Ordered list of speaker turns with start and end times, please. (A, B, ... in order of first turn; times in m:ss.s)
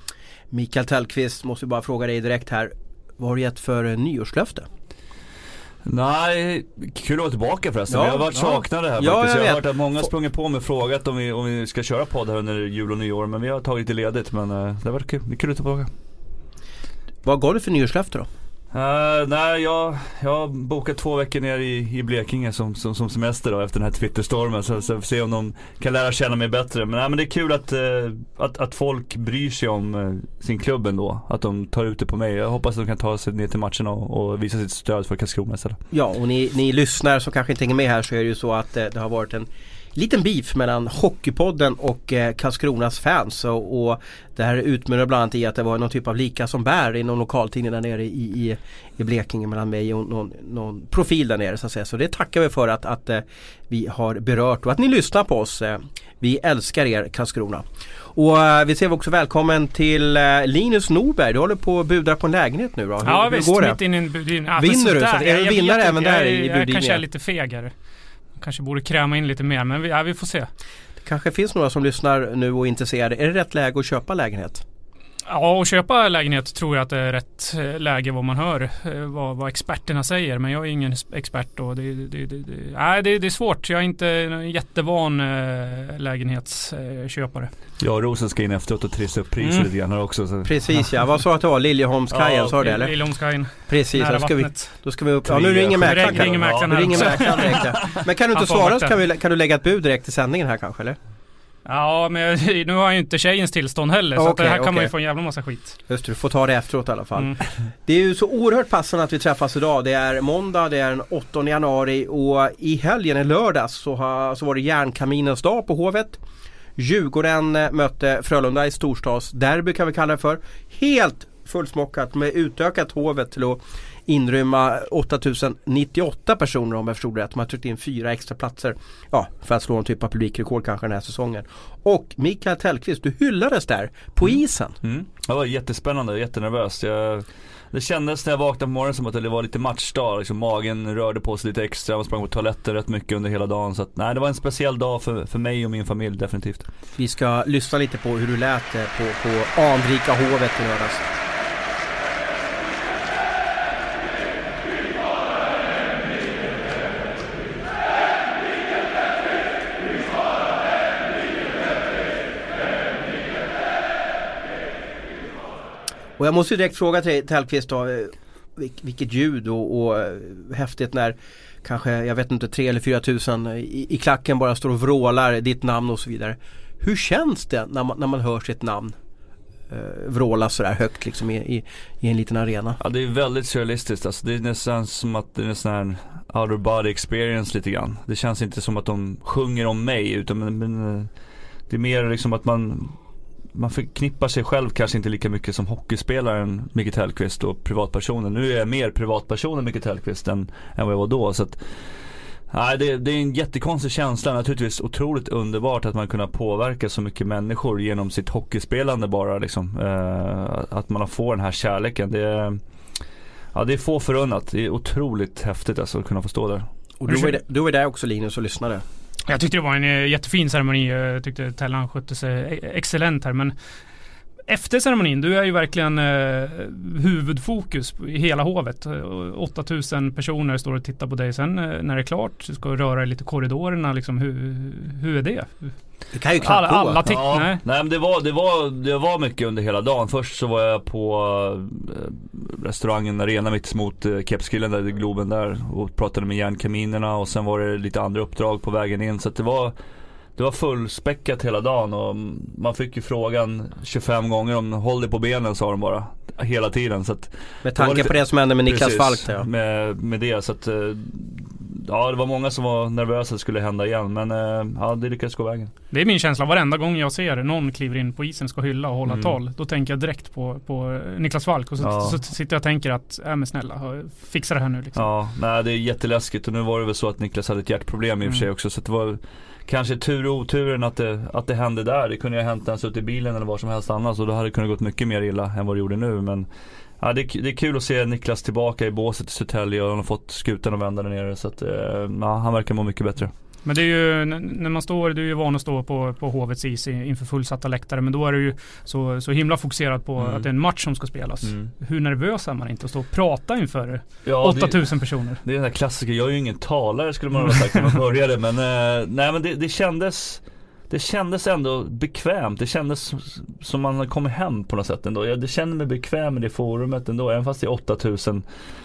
0:00.5-0:04.7 A
0:05.8-0:15.9 B
0:07.9-0:10.1 A
0:17.2-0:18.3 A
0:18.7-0:35.8 B
0:35.9-1:03.8 A
1:03.0-1:07.7 C
1:04.6-1:07.0 A
1:08.4-1:10.5 C
1:11.0-1:14.6 A
1:15.3-1:27.5 C
1:27.8-1:30.6 B
1:29.4-1:29.7 C
1:30.4-1:32.9 A
1:32.1-1:32.5 B
1:32.5-1:34.8 C
1:33.7-1:41.0 A
1:35.2-1:37.8 B
1:35.7-1:37.8 C
1:38.3-1:38.9 C
1:41.6-1:45.8 C
1:44.2-1:44.9 A
1:45.9-1:56.2 A
1:56.8-2:14.8 A
2:14.8-2:26.6 B
2:27.0-2:31.0 A
2:46.2-2:59.0 A
2:59.7-3:02.8 A
3:02.8-3:11.1 B
3:11.7-3:13.0 B
3:13.5-3:32.6 B
3:33.5-3:36.7 B
3:37.0-3:38.8 A
3:39.3-3:43.5 C
3:44.5-3:55.8 C
3:56.1-3:57.0 A
3:56.4-3:57.6 C
3:57.0-4:09.7 B
4:10.4-4:25.7 B
4:17.6-4:19.5 A
4:25.9-4:35.0 C
4:29.1-4:29.4 B
4:31.8-4:32.2 B
4:35.0-4:53.3 B
4:53.6-5:05.4 C
5:00.2-5:00.5 B
5:01.4-5:01.7 B
5:04.2-5:18.4 B